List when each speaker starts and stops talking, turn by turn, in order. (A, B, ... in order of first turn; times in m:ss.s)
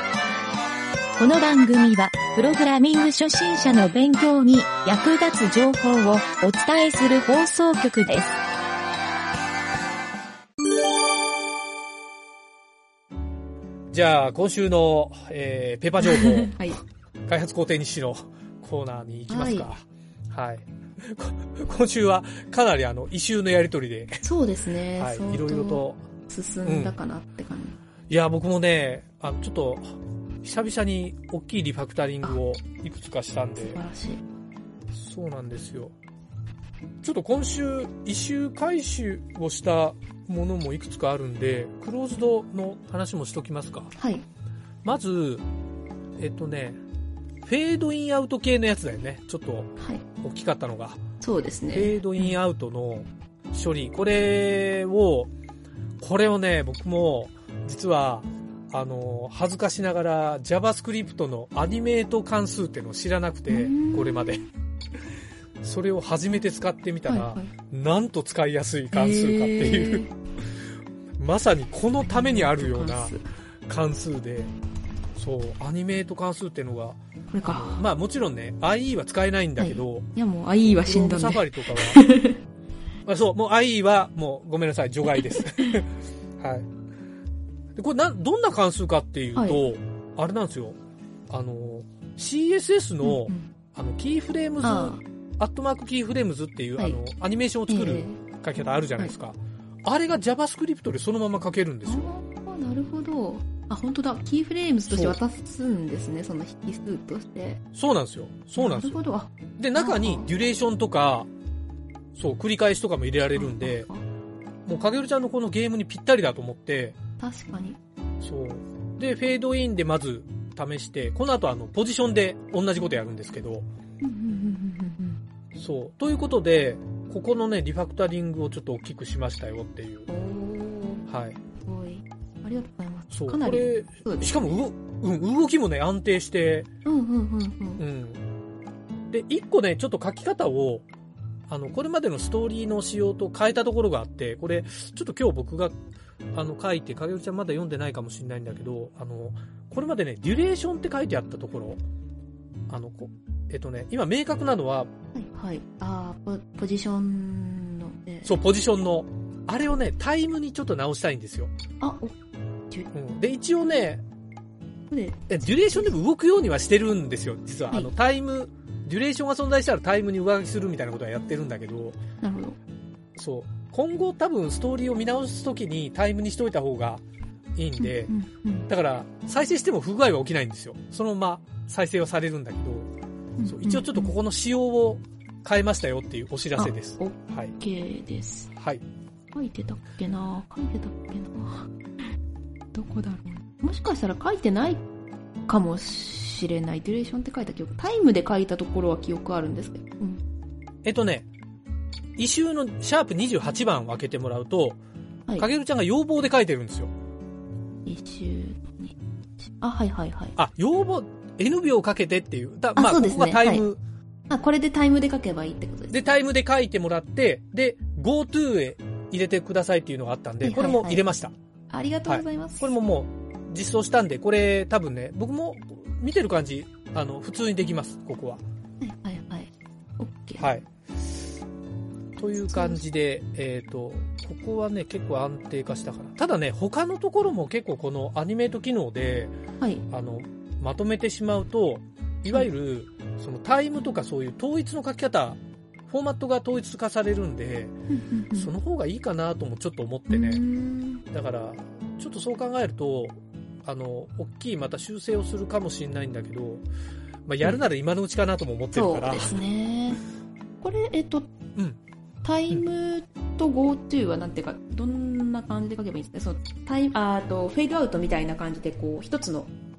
0:01.2-0:08.3 A
0:13.9-0:16.5 B
0:16.0-0:16.8 C
0:17.3-0:24.2 B
0:19.3-0:19.7 C
0:24.2-0:27.8 C
0:25.0-0:26.0 B
0:26.6-0:26.9 B
0:28.1-0:33.8 B
0:33.6-0:34.2 C
0:34.9-0:35.9 B
0:37.0-0:43.9 B
0:44.0-0:44.2 C
0:44.8-0:45.4 B
0:46.2-0:46.8 B
0:47.4-0:51.0 B
0:49.8-0:50.0 C
0:51.2-0:52.3 C
0:51.7-0:55.3 B
0:56.0-1:04.4 B
1:03.5-1:04.4 C
1:05.6-1:10.0 B
1:07.1-1:07.5 C
1:08.9-1:10.1 C
1:11.2-1:13.1 B
1:12.0-1:13.2 C
1:13.7-1:14.5 B
1:15.1-1:20.1 B
1:17.3-1:17.8 C
1:19.6-1:22.4 C
1:20.7-1:22.0 B
1:23.0-1:26.7 B
1:25.1-1:25.8 C
1:27.7-1:30.8 B
1:29.4-1:29.6 C
1:31.3-1:42.1 B
1:33.0-1:33.5 C
1:34.6-1:35.0 C
1:37.7-1:38.2 C
1:41.8-1:47.6 C
1:44.9-1:45.2 B
1:47.7-1:49.0 B
1:48.6-1:50.3 C
1:49.6-1:51.3 B
1:52.1-1:53.9 B
1:53.4-1:54.0 C
1:54.6-1:57.0 B
1:57.2-1:57.8 C
1:58.2-2:03.6 B
2:04.0-2:05.2 C
2:05.5-2:10.1 B
2:10.1-2:11.0 C
2:11.1-2:11.4 B
2:11.6-2:14.5 C
2:13.1-2:16.7 B
2:16.8-2:17.8 C
2:17.8-2:18.2 B
2:19.1-2:20.8 B
2:21.5-2:25.8 B
2:26.3-2:31.8 B
2:32.7-2:34.9 B
2:35.1-2:38.4 C
2:38.2-2:41.5 B
2:41.8-2:42.1 C
2:42.9-2:44.0 B
2:44.9-2:45.9 C
2:45.3-2:52.0 B
2:52.2-2:52.6 C
2:53.2-2:57.0 B
2:57.5-2:58.1 B
2:57.8-2:58.7 C
2:58.7-3:02.9 B
3:03.4-3:04.1 C
3:03.5-3:07.5 B
3:06.6-3:08.5 C
3:08.6-3:08.8 B
3:09.3-3:11.7 C
3:12.7-3:14.8 C
3:15.5-3:20.2 C
3:20.8-3:21.3 B
3:22.2-3:24.8 B
3:25.4-3:26.9 B
3:27.8-3:30.4 C
3:30.4-3:33.8 B
3:32.8-3:33.6 C
3:34.3-3:36.0 C
3:35.9-3:41.3 B
3:40.4-3:41.0 C
3:41.7-3:42.7 C
3:42.1-3:48.4 B
3:48.8-3:50.4 C
3:50.4-3:51.1 B
3:52.2-3:59.3 B
3:52.4-3:52.8 C
3:59.9-4:07.7 B
4:07.9-4:08.5 C
4:08.3-4:10.4 B
4:10.1-4:11.0 C
4:11.1-4:16.6 B
4:17.2-4:19.4 B
4:18.7-4:20.0 C
4:20.6-4:21.3 C
4:22.2-4:29.5 C